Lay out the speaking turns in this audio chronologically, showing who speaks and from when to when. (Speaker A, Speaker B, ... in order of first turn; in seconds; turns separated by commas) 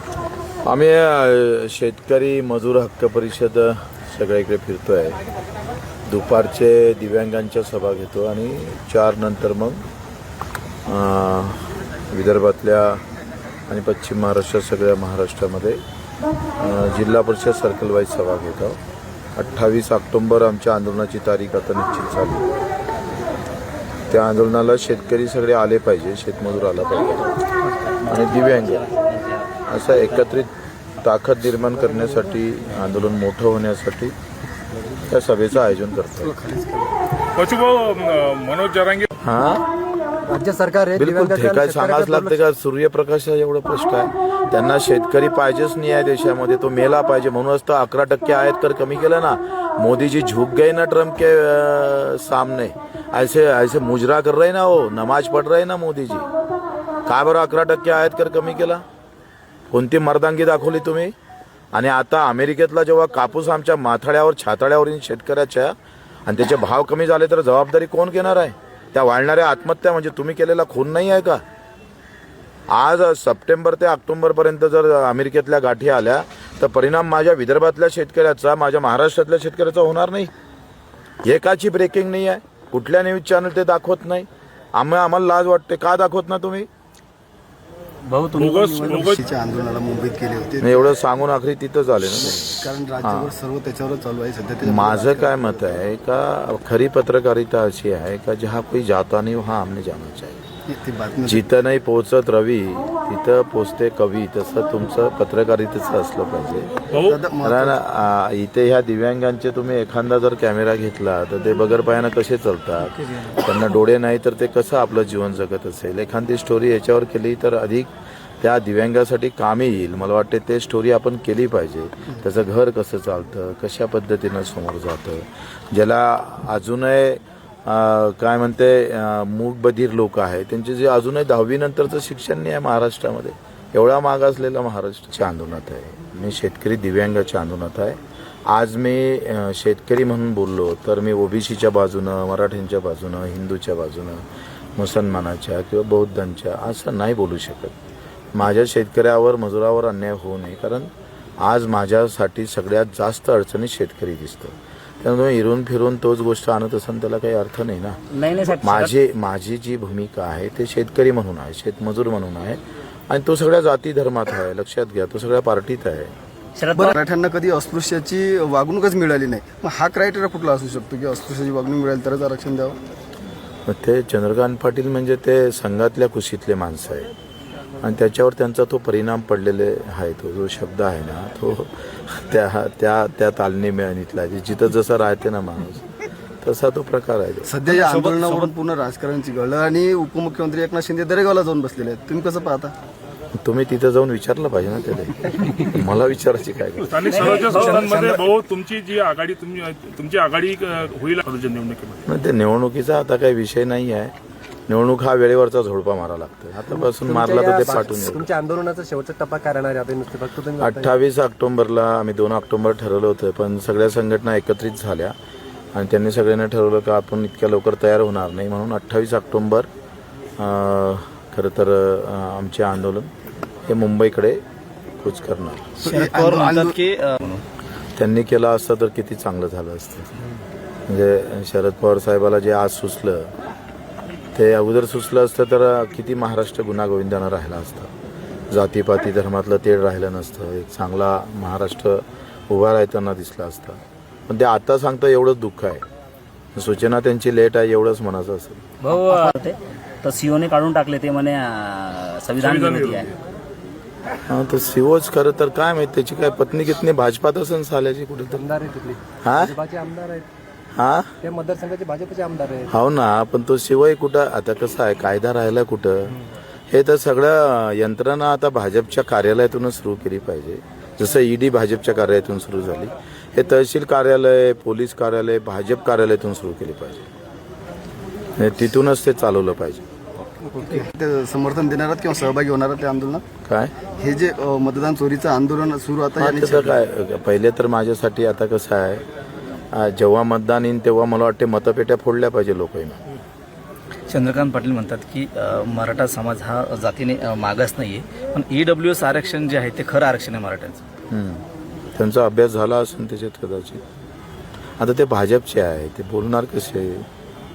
Speaker A: 0.7-5.2, Speaker A: 6.1-9.8, Speaker A: 10.9-13.0, Speaker A: 13.7-15.8, Speaker A: 16.6-18.8, Speaker A: 19.4-22.5, Speaker A: 24.1-27.4, Speaker A: 28.1-28.9, Speaker B: 28.9-29.2, Speaker A: 29.7-34.1, Speaker C: 31.9-32.3, Speaker A: 35.0-36.4, Speaker C: 36.3-36.9, Speaker D: 37.4-39.1, Speaker A: 39.2-39.7, Speaker C: 40.3-42.4, Speaker A: 41.0-56.3, Speaker A: 57.1-58.8, Speaker A: 59.7-61.1, Speaker A: 61.7-71.4, Speaker A: 72.7-80.3, Speaker A: 81.2-86.7, Speaker B: 88.1-89.1, Speaker D: 88.3-89.2, Speaker E: 88.9-91.0, Speaker A: 90.6-93.3, Speaker E: 92.1-95.8, Speaker A: 94.6-100.4, Speaker E: 100.7-101.5, Speaker A: 101.2-106.8, Speaker D: 106.9-107.2, Speaker E: 107.0-107.8, Speaker A: 107.4-144.2, Speaker A: 144.8-147.8, Speaker A: 148.3-158.0, Speaker B: 158.1-158.9, Speaker A: 158.6-166.1, Speaker B: 166.6-166.9, Speaker E: 166.8-172.8, Speaker A: 173.7-177.1, Speaker A: 177.8-185.9, Speaker A: 186.4-187.5, Speaker E: 187.4-192.7, Speaker F: 187.6-188.5, Speaker A: 193.3-197.1, Speaker D: 196.8-202.0, Speaker B: 197.1-197.9, Speaker C: 197.9-198.2, Speaker A: 202.1-204.1, Speaker A: 204.7-208.3, Speaker C: 206.7-210.9, Speaker A: 210.6-215.2, Speaker A: 215.7-219.7, Speaker A: 220.4-223.1, Speaker A: 223.7-224.4, Speaker A: 225.0-225.7, Speaker F: 225.8-227.4, Speaker E: 225.8-226.8, Speaker A: 228.0-230.1, Speaker A: 230.9-233.3, Speaker A: 234.3-237.9, Speaker A: 238.5-245.8, Speaker A: 246.6-248.6, Speaker B: 248.8-253.1, Speaker D: 252.4-253.1, Speaker A: 254.3-258.4, Speaker C: 258.3-260.3, Speaker A: 259.2-259.5, Speaker A: 260.8-261.1, Speaker C: 261.2-262.7, Speaker A: 262.7-277.1, Speaker A: 278.4-279.8, Speaker E: 280.5-283.2, Speaker A: 283.4-283.7, Speaker E: 284.0-286.8, Speaker A: 286.2-289.0, Speaker A: 289.7-293.1, Speaker F: 294.1-300.8, Speaker A: 301.1-303.8, Speaker A: 304.8-307.1